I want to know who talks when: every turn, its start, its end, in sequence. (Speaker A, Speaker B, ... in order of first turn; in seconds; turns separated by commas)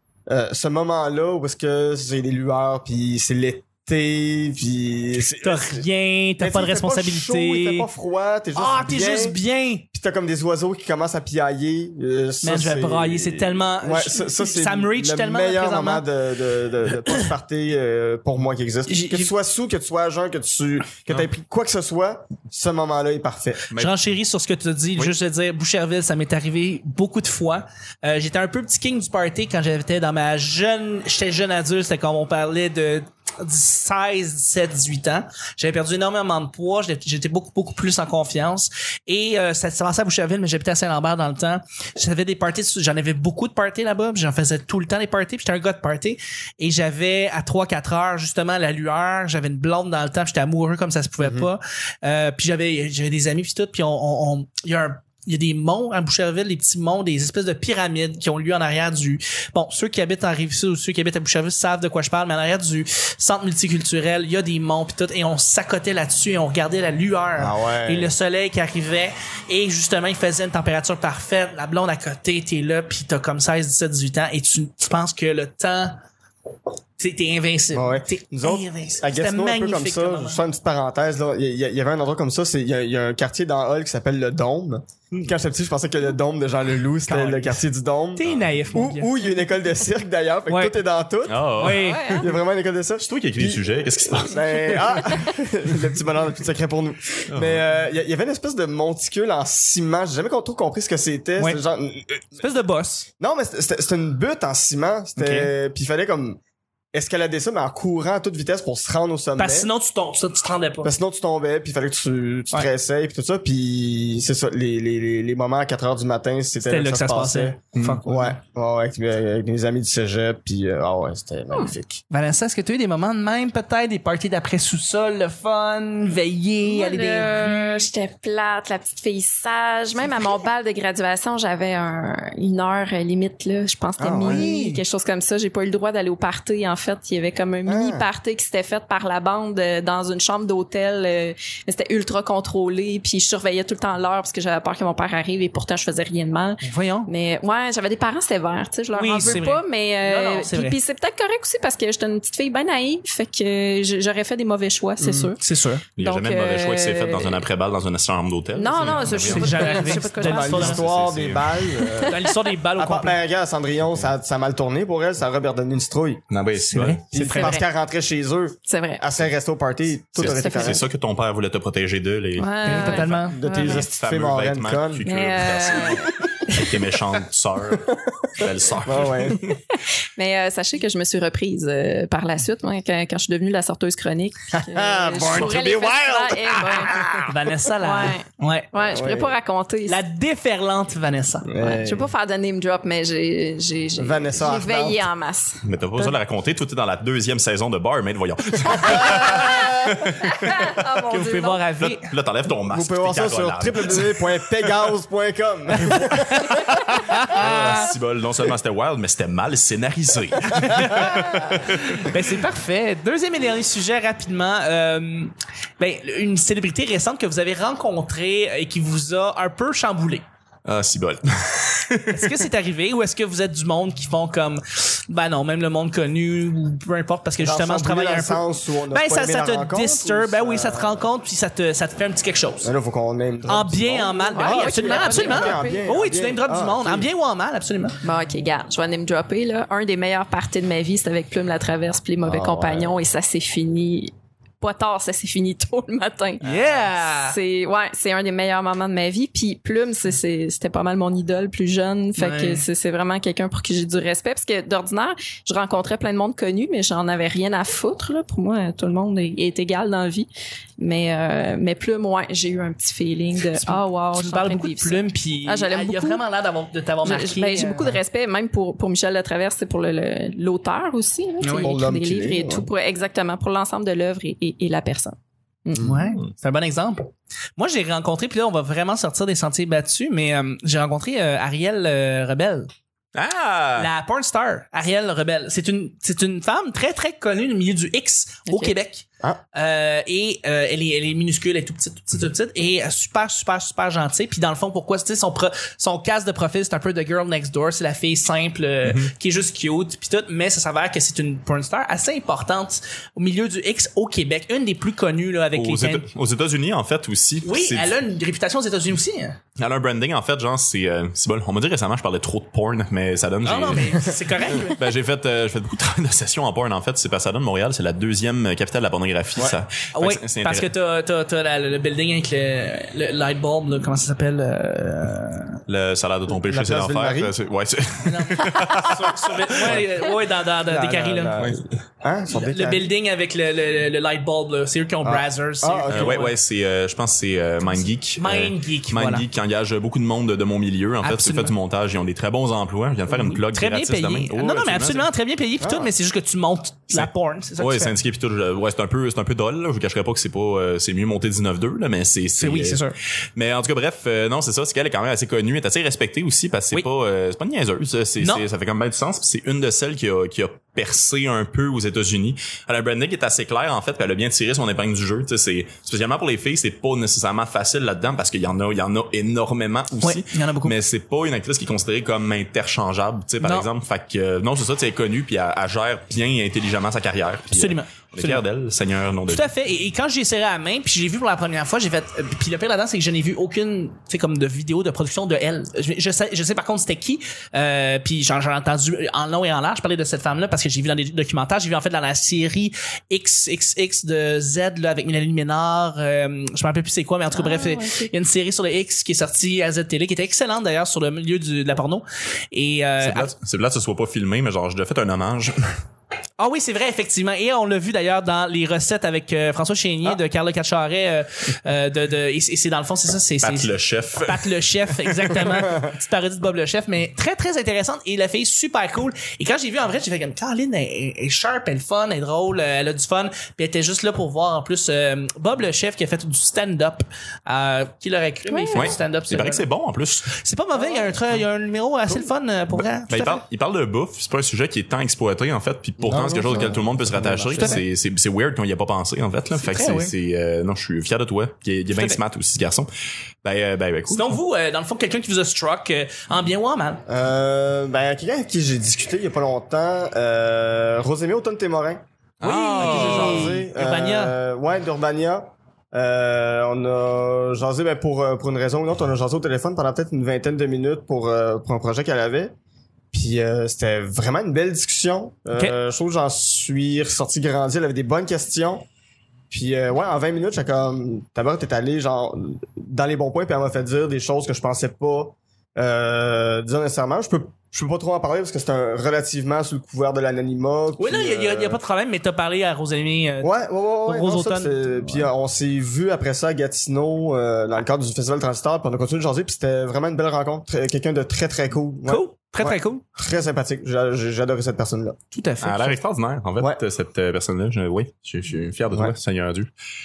Speaker A: 0.3-5.9, Speaker B: 5.4-7.9, Speaker A: 6.4-9.4, Speaker B: 8.6-9.8, Speaker A: 9.9-23.6, Speaker B: 12.4-16.1, Speaker B: 18.9-19.3, Speaker C: 23.7-24.0, Speaker B: 23.8-76.0, Speaker A: 51.2-51.5, Speaker A: 67.4-68.1, Speaker B: 77.0-80.4, Speaker A: 77.7-102.4, Speaker B: 87.1-87.6, Speaker B: 88.2-89.1, Speaker B: 90.5-90.8, Speaker C: 91.2-91.9, Speaker B: 91.6-92.2, Speaker D: 91.8-92.3, Speaker C: 93.0-95.0, Speaker C: 97.3-97.7, Speaker B: 102.4-103.1, Speaker A: 103.2-106.4, Speaker B: 105.2-105.5, Speaker A: 106.9-109.7, Speaker B: 109.4-110.9, Speaker A: 110.8-122.0, Speaker B: 116.6-118.4, Speaker C: 117.8-118.0, Speaker B: 122.1-127.8, Speaker D: 126.6-155.4, Speaker A: 134.0-134.5, Speaker B: 134.2-134.8, Speaker A: 137.6-138.1, Speaker B: 146.6-147.1, Speaker B: 148.9-150.8, Speaker A: 155.0-155.3, Speaker B: 155.4-155.9, Speaker C: 156.0-161.6, Speaker D: 156.0-157.4, Speaker D: 158.5-160.8, Speaker B: 159.1-160.8, Speaker A: 160.2-162.2, Speaker D: 161.8-162.3, Speaker B: 162.1-163.2, Speaker A: 162.8-166.2, Speaker C: 166.3-167.1, Speaker B: 166.7-167.6, Speaker A: 167.1-170.8, Speaker D: 167.2-167.6, Speaker D: 168.7-169.1, Speaker D: 170.2-170.8, Speaker C: 170.2-173.1, Speaker D: 172.4-173.8, Speaker B: 172.6-173.4, Speaker A: 173.1-175.1, Speaker C: 173.6-179.6, Speaker D: 175.1-176.7, Speaker A: 178.8-179.4, Speaker D: 180.1-187.0, Speaker A: 184.7-187.3, Speaker B: 187.3-188.7, Speaker D: 187.8-190.0, Speaker A: 188.9-189.3, Speaker B: 189.9-191.5, Speaker A: 191.5-192.1, Speaker D: 191.6-196.1, Speaker A: 194.0-195.1, Speaker C: 195.6-200.7, Speaker D: 198.8-201.6, Speaker A: 199.1-199.6, Speaker B: 201.1-202.1, Speaker C: 202.1-204.2, Speaker A: 202.7-206.8, Speaker B: 207.1-207.8, Speaker C: 207.3-211.8, Speaker B: 210.5-220.2, Speaker C: 220.7-222.4, Speaker B: 222.1-232.7, Speaker A: 227.4-231.1, Speaker A: 232.6-237.1, Speaker B: 233.5-238.0, Speaker D: 234.3-235.9, Speaker D: 238.0-246.4, Speaker A: 242.2-242.9, Speaker B: 246.4-247.4, Speaker D: 247.0-266.2, Speaker B: 252.2-252.6, Speaker B: 263.5-267.9, Speaker D: 267.0-276.0, Speaker B: 271.4-271.8, Speaker A: 271.6-272.7, Speaker B: 275.8-282.7, Speaker C: 283.1-283.9, Speaker B: 283.8-306.1, Speaker D: 288.5-288.7, Speaker C: 298.8-299.1, Speaker C: 305.5-307.9, Speaker B: 307.4-309.4, Speaker C: 309.6-314.1, Speaker B: 313.4-314.8, Speaker C: 314.7-320.7, Speaker B: 319.9-325.6, Speaker C: 325.7-329.8, Speaker A: 326.4-327.3, Speaker B: 328.0-331.5, Speaker A: 330.7-332.9, Speaker B: 332.3-336.3, Speaker A: 335.0-336.3, Speaker C: 335.9-345.1, Speaker B: 337.6-339.2, Speaker B: 341.0-341.5, Speaker B: 343.1-347.9, Speaker A: 345.6-345.9, Speaker C: 346.9-352.9, Speaker B: 352.4-353.0, Speaker C: 353.4-379.5, Speaker B: 358.2-358.4, Speaker B: 370.0-370.8, Speaker B: 373.4-373.7, Speaker B: 377.5-378.4, Speaker B: 379.2-403.3, Speaker D: 397.3-398.1, Speaker C: 403.0-405.6, Speaker B: 406.4-429.6, Speaker C: 413.4-415.3, Speaker A: 415.6-415.8, Speaker D: 428.5-428.9, Speaker C: 428.7-430.3, Speaker B: 430.3-433.4, Speaker C: 433.1-442.9, Speaker A: 436.0-437.8, Speaker B: 437.5-437.8, Speaker B: 439.5-440.1, Speaker B: 441.9-442.2, Speaker C: 443.4-444.3, Speaker B: 444.1-447.0, Speaker A: 447.1-452.0, Speaker C: 452.4-453.5, Speaker B: 452.4-454.3, Speaker A: 452.8-462.5, Speaker A: 463.1-468.9, Speaker A: 469.5-481.8, Speaker B: 481.0-485.3, Speaker A: 483.4-495.1, Speaker B: 492.1-493.0, Speaker B: 495.3-496.0, Speaker C: 495.6-499.7